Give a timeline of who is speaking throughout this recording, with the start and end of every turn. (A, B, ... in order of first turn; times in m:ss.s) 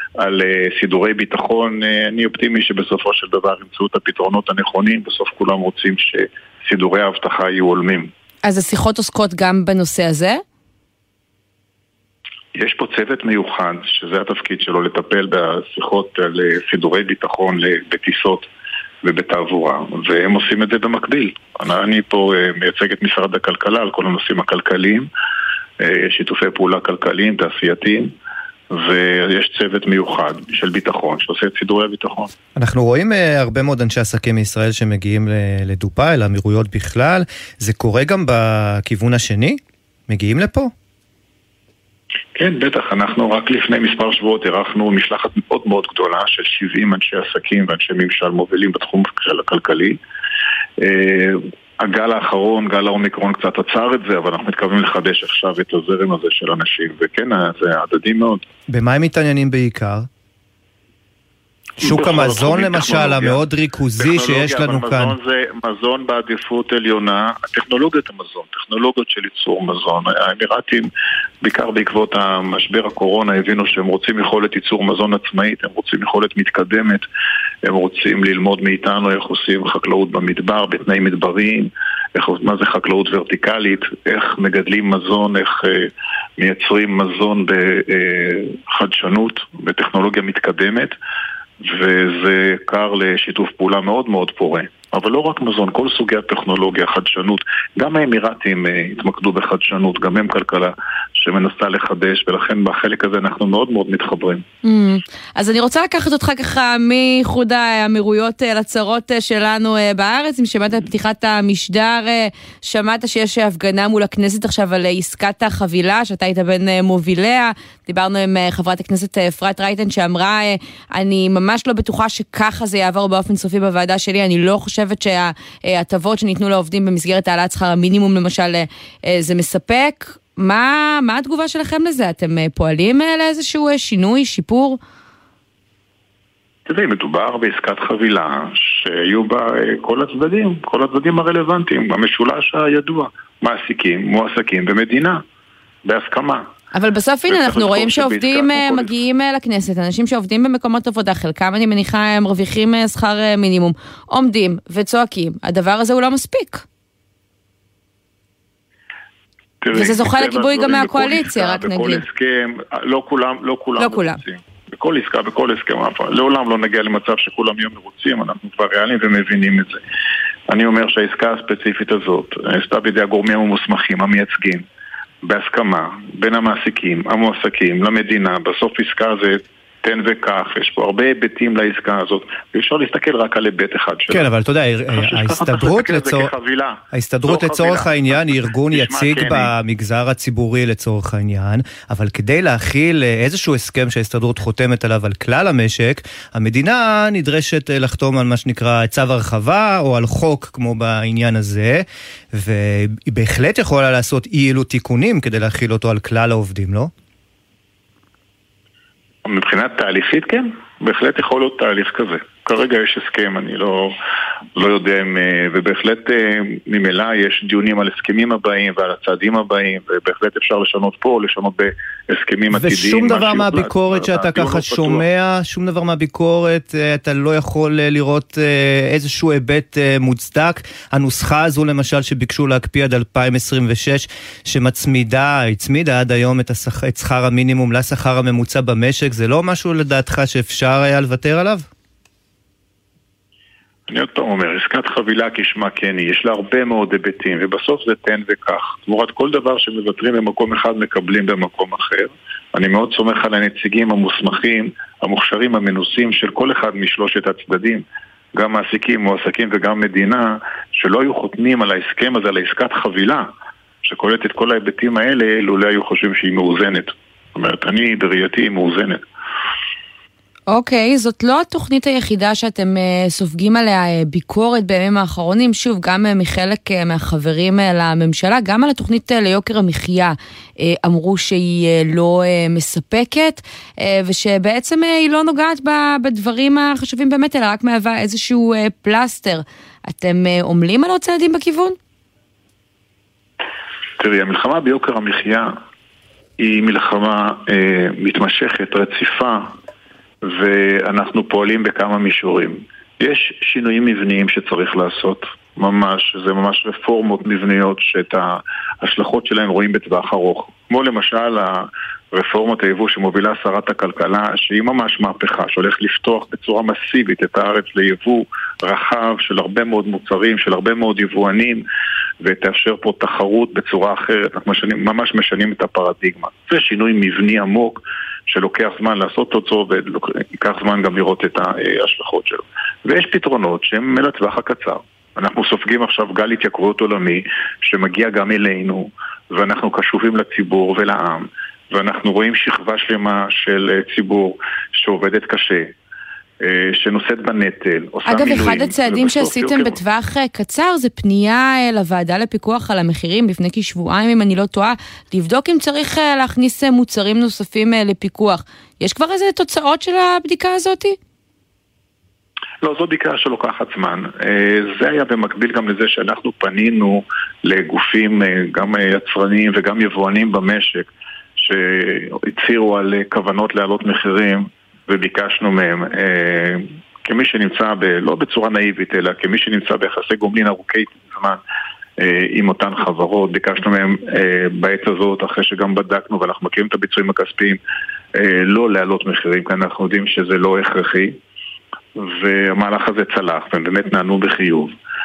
0:00.2-0:08.1 A
0:08.4-0:10.4 B
0:12.5-0:18.5 A
0:19.0-0:25.1 A
0:25.8-0:28.1 A
0:28.7-0:32.3 A
0:32.6-0:40.7 C
0:42.4-0:50.0 A
0:50.8-0:58.4 A
0:58.7-1:00.1 C
1:01.8-1:03.4 A
1:01.8-1:05.2 C
1:04.0-1:10.9 A
1:11.4-1:17.0 A
1:17.6-1:30.9 A
1:31.6-1:44.4 A
1:44.6-2:14.8 B
2:16.7-2:25.2 A
2:25.8-2:26.4 A
2:26.7-2:36.6 B
2:27.3-2:28.9 A
2:39.6-2:49.8 A
2:39.7-2:42.0 B
2:43.8-2:44.2 B
2:50.5-2:54.6 A
2:55.2-3:04.2 A
3:04.1-3:06.3 C
3:04.9-3:09.5 A
3:06.9-3:26.9 C
3:29.2-3:33.9 A
3:34.6-3:45.0 A
3:42.5-4:01.6 C
4:03.9-4:17.8 A
4:18.3-4:23.3 A
4:23.8-4:29.0 A
4:30.5-4:51.8 B
4:54.0-4:55.5 A
4:56.4-4:59.5 A
5:00.2-5:21.6 A
5:22.2-5:45.7 A
5:46.4-5:49.8 A
5:48.1-6:01.0 B
6:02.6-6:21.4 A
6:22.0-6:27.6 A
6:28.1-6:31.2 A
6:32.0-6:34.7 A